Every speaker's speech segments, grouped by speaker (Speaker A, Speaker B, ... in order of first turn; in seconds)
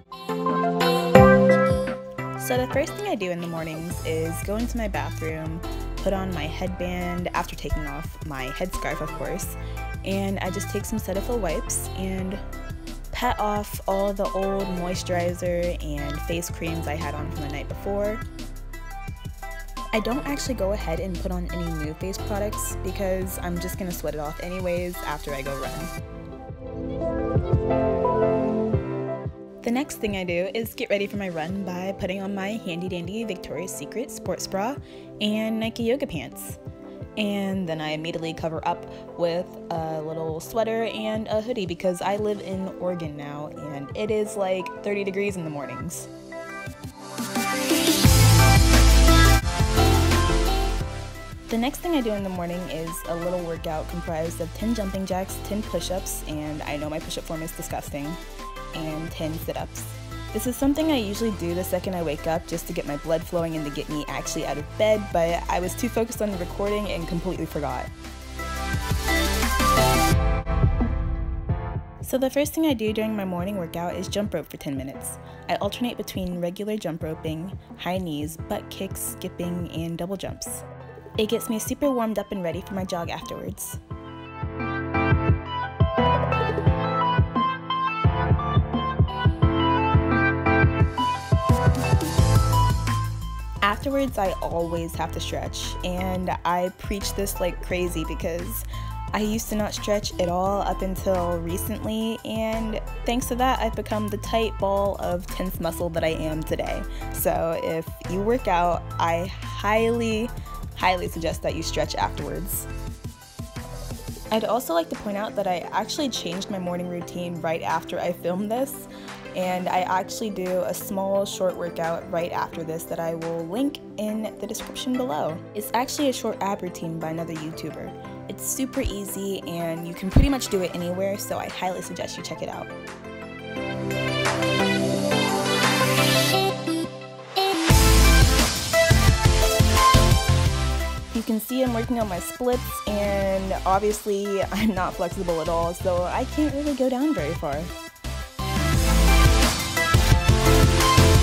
Speaker A: 2.4-12.4, 13.1-18.2, 19.9-25.9, 29.6-36.6, 37.2-46.1, 51.5-58.2, 58.7-67.9, 72.0-80.6, 81.2-83.8, 93.6-112.7, 114.3-132.7, 141.1-147.7